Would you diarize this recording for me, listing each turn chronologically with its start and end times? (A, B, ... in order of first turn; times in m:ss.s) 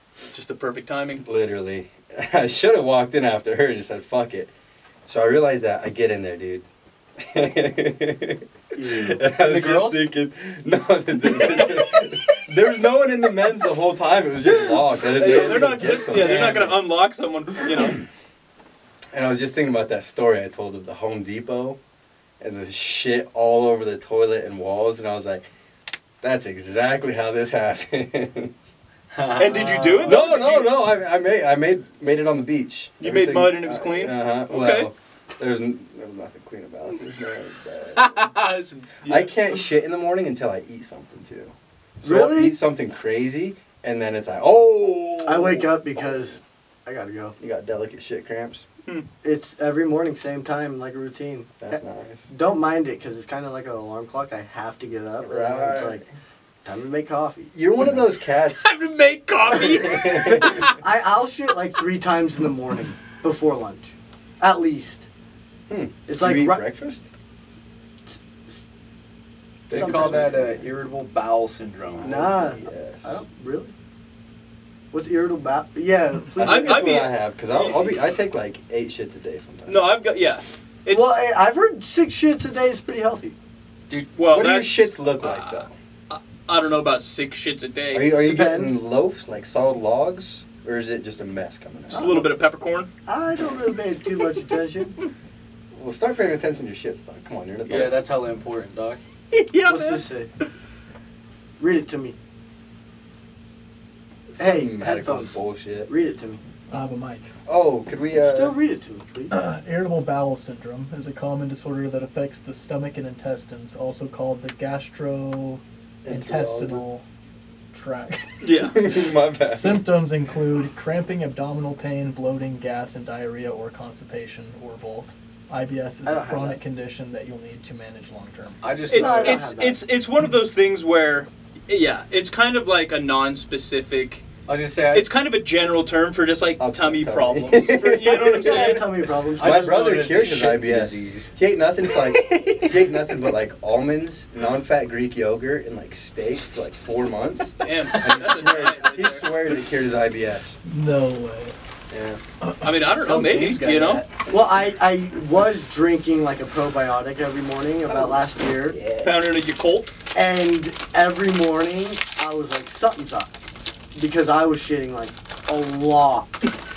0:00.3-0:01.2 A
0:01.2-0:04.5 B
0:05.1-0:06.6 B
0:07.2-0:16.7 B
0:08.8-0:09.2 C
0:09.4-0:10.0 D
0:14.6-0:18.0 A
0:15.2-0:16.8 D
0:17.8-0:18.1 B
0:19.1-0:21.8 B
0:22.4-0:25.4 B
0:26.2-0:28.7 B
0:29.1-0:30.2 D
0:29.4-0:30.8 A
0:30.0-0:38.3 B
0:33.0-0:34.9 A
0:38.0-0:39.4 A
0:39.0-0:45.7 B
0:42.0-0:42.6 C
0:45.2-0:47.4 C
0:47.4-0:48.6 B
0:49.2-0:51.5 C
0:51.6-0:52.3 B
0:52.3-0:56.0 C
0:55.2-0:56.1 B
0:56.6-0:58.0 C
0:57.5-0:58.7 B
0:58.6-1:00.8 A
0:59.5-1:00.7 B
1:00.5-1:05.1 C
1:05.7-1:07.1 B
1:06.1-1:06.6 C
1:09.7-1:10.6 B
1:09.7-1:10.5 C
1:09.7-1:12.2 D
1:12.0-1:13.2 B
1:12.0-1:13.7 C
1:14.9-1:16.8 C
1:16.4-1:17.9 A
1:16.4-1:19.9 B
1:19.7-1:21.2 A
1:20.9-1:23.4 C
1:24.2-1:28.1 A
1:24.2-1:25.7 B
1:27.9-1:32.2 B
1:28.1-1:28.8 C
1:31.9-1:32.9 A
1:31.9-1:32.3 C
1:33.1-1:35.0 C
1:35.7-1:38.0 B
1:37.7-1:39.0 D
1:39.3-1:40.1 A
1:39.7-1:40.3 C
1:41.6-1:42.2 C
1:44.3-1:45.9 B
1:44.4-1:45.4 C
1:45.9-1:46.4 C
1:46.7-1:47.3 E
1:47.5-1:48.6 B
1:48.1-1:49.3 C
1:49.3-1:57.0 E
1:56.0-1:56.8 B
1:57.7-1:58.3 E
1:58.4-1:58.8 A
1:58.6-1:59.8 B
1:59.4-2:08.6 E
2:06.0-2:06.6 C
2:08.6-2:09.5 D
2:08.9-2:14.2 A
2:08.9-2:09.8 C
2:14.5-2:15.1 D
2:14.9-2:18.9 A
2:16.6-2:30.6 B
2:18.1-2:19.8 C
2:19.4-2:21.3 D
2:22.1-2:22.8 C
2:27.6-2:29.4 A
2:30.6-2:31.6 E
2:31.9-2:32.2 B
2:32.6-2:34.0 A
2:32.8-2:34.1 D
2:34.3-2:38.8 C
2:37.9-2:39.2 B
2:39.0-2:39.9 A
2:40.1-2:43.3 C
2:44.0-2:46.4 C